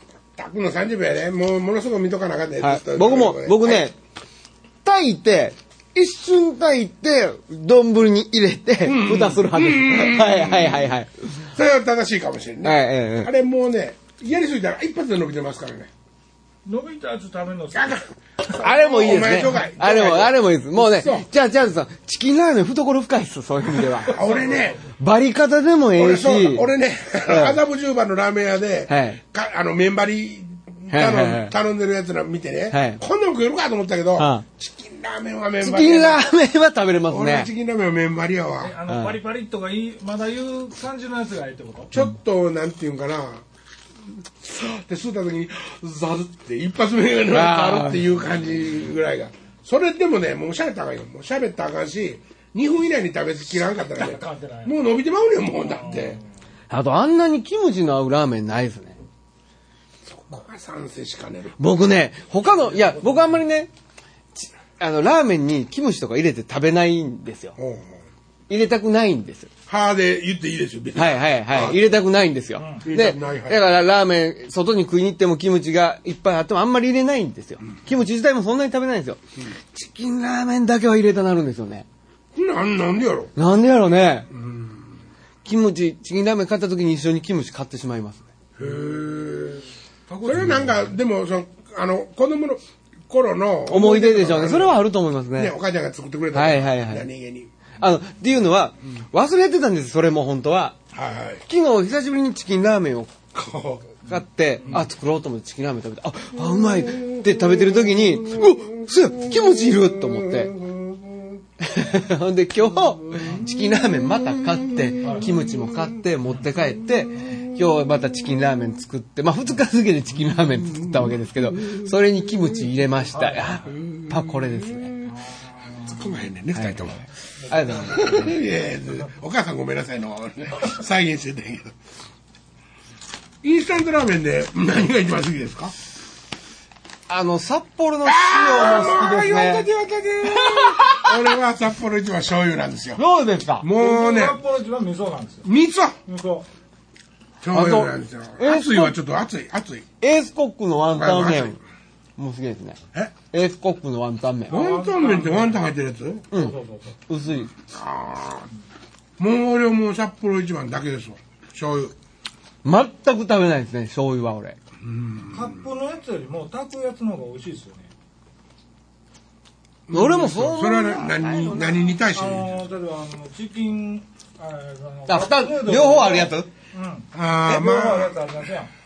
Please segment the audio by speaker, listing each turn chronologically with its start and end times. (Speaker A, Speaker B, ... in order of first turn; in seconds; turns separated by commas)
Speaker A: 0.4-3.9, Speaker B: 2.6-4.0, Speaker B: 4.8-11.5, Speaker A: 8.8-15.9, Speaker B: 12.6-13.3, Speaker C: 16.6-18.0, Speaker A: 17.7-21.3, Speaker B: 18.5-24.2, Speaker A: 24.0-24.8, Speaker C: 24.1-24.8, Speaker B: 25.0-26.7, Speaker A: 26.0-36.3, Speaker B: 27.3-27.6, Speaker B: 28.9-29.2, Speaker B: 30.9-31.5, Speaker B: 32.7-33.0, Speaker B: 34.2-34.5, Speaker B: 35.6-37.5, Speaker A: 37.1-38.8, Speaker C: 38.6-41.9, Speaker B: 38.9-39.2, Speaker A: 41.9-43.4, Speaker A: 44.4-56.2, Speaker B: 47.3-48.1, Speaker C: 53.9-54.9, Speaker C: 55.6-56.2, Speaker B: 56.7-59.0, Speaker A: 60.0-61.6, Speaker B: 61.6-63.7, Speaker C: 62.6-63.4, Speaker B: 64.3-67.6, Speaker A: 67.6-68.0, Speaker B: 68.5-69.5, Speaker A: 69.7-71.8, Speaker B: 71.0-79.2, Speaker C: 72.6-72.8, Speaker A: 72.8-73.6, Speaker B: 79.7-81.9, Speaker A: 82.3-83.3, Speaker B: 83.4-84.3, Speaker A: 84.3-84.9, Speaker B: 85.5-88.3, Speaker A: 88.6-89.7, Speaker C: 90.1-90.3, Speaker A: 90.2-94.8, Speaker B: 93.7-95.5, Speaker A: 95.3-97.5, Speaker B: 96.3-97.1, Speaker B: 97.8-100.8, Speaker A: 100.9-101.4, Speaker B: 101.5-103.2, Speaker A: 103.3-103.9, Speaker B: 104.0-110.5, Speaker A: 106.8-111.4, Speaker B: 111.6-124.9, Speaker A: 112.8-115.8, Speaker C: 115.0-115.3, Speaker A: 120.7-121.8, Speaker C: 123.1-123.7, Speaker A: 123.7-125.1, Speaker C: 125.1-126.1, Speaker A: 125.8-127.0, Speaker B: 126.5-126.9, Speaker C: 127.4-128.1, Speaker B: 127.5-128.3, Speaker A: 127.7-131.7, Speaker A: 133.4-135.7, Speaker B: 137.1-139.7, Speaker A: 138.1-143.0, Speaker B: 140.2-141.2, Speaker B: 143.0-143.7, Speaker A: 143.6-144.4, Speaker C: 143.8-145.5, Speaker A: 145.4-146.0, Speaker C: 146.1-146.5, Speaker A: 147.4-149.9, Speaker B: 147.5-149.0, Speaker B: 150.0-151.6, Speaker A: 150.9-151.6, Speaker B: 152.2-152.8, Speaker B: 153.3-154.6, Speaker C: 154.5-155.6, Speaker A: 154.5-156.3, Speaker B: 156.3-156.6, Speaker C: 156.3-156.9, Speaker B: 157.1-157.5, Speaker A: 157.6-158.5, Speaker A: 159.2-161.9, Speaker B: 162.6-164.6, Speaker A: 164.8-165.6, Speaker C: 165.3-167.9, Speaker A: 169.9-172.6, Speaker B: 169.9-171.9, Speaker C: 172.1-178.7, Speaker B: 175.1-176.5, Speaker A: 177.1-178.2